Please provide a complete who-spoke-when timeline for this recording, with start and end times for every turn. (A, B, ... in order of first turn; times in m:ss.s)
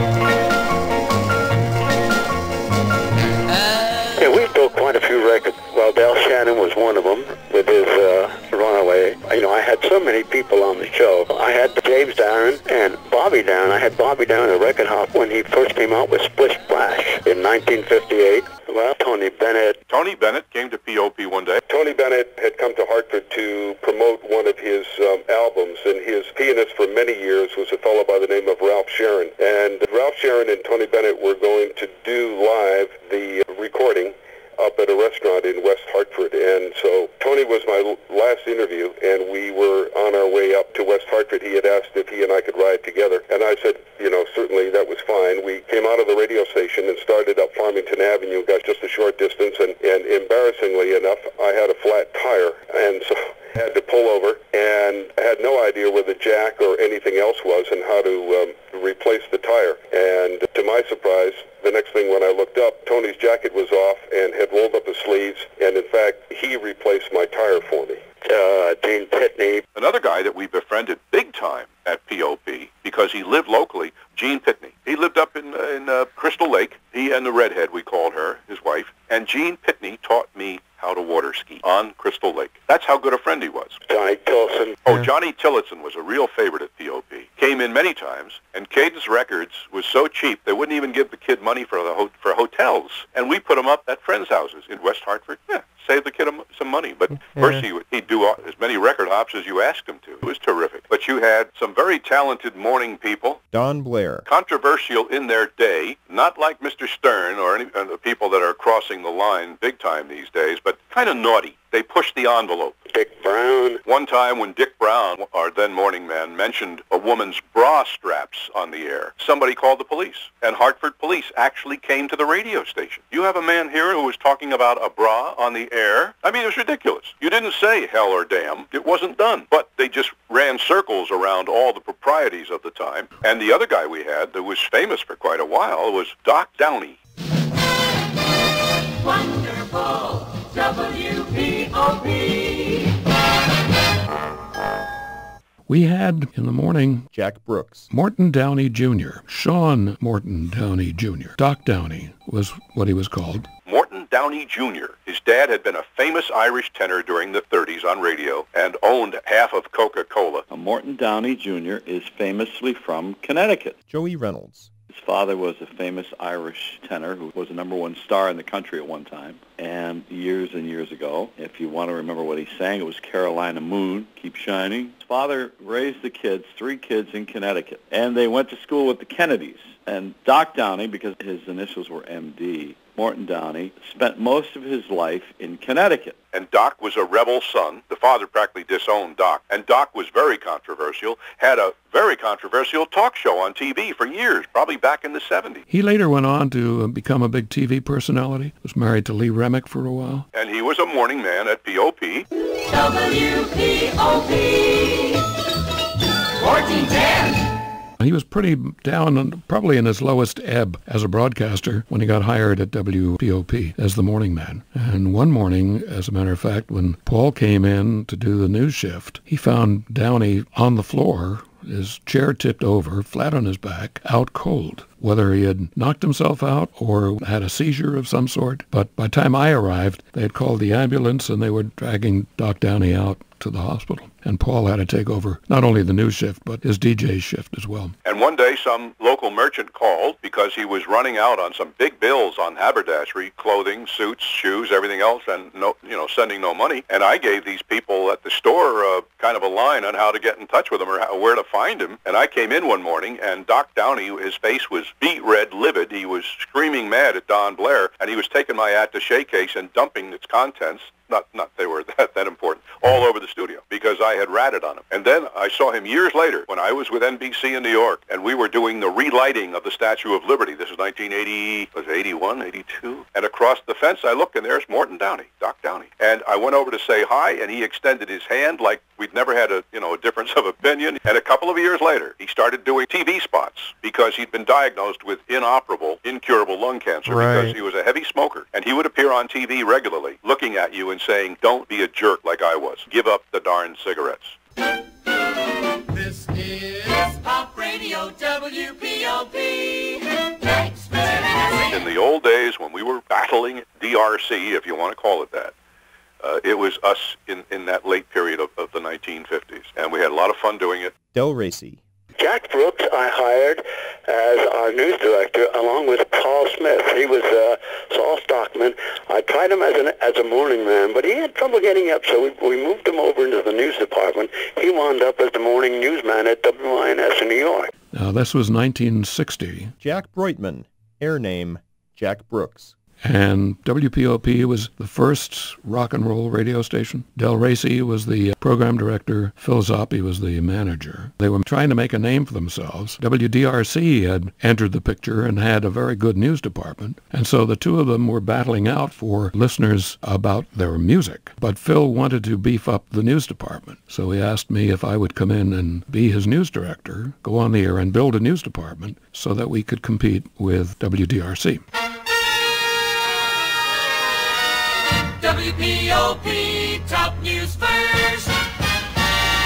0:04.2-0:19.8 A
0:19.9-0:21.6 B
0:21.7-1:08.0 C
1:08.2-1:09.6 A
1:09.8-1:23.8 B
1:23.9-1:24.8 A
1:24.8-1:43.4 B
1:37.4-1:37.6 D
1:43.5-1:44.2 D
1:44.3-1:52.8 B
1:52.9-1:53.8 A
1:53.8-2:17.0 B
2:19.0-2:22.9 E
2:25.7-2:27.1 F
2:27.1-2:27.9 D
2:27.9-2:33.5 F
2:33.6-2:40.4 B
2:40.5-2:43.8 G
2:43.9-2:44.7 D
2:44.9-3:06.2 G
3:06.3-3:15.6 B
3:15.7-3:20.3 F
3:20.3-3:22.2 B
3:22.7-3:25.2 E
3:26.4-3:27.5 E
3:28.0-3:57.9 F
3:58.0-4:54.4 B
4:47.1-4:47.6 D
4:55.9-5:01.8 E
5:01.7-5:05.5 B
5:06.2-5:10.9 B
5:11.1-5:11.8 D
5:12.2-5:27.7 A
5:27.9-5:29.7 F
5:29.8-5:32.8 D
5:33.0-6:01.6 F
6:05.2-6:08.3 E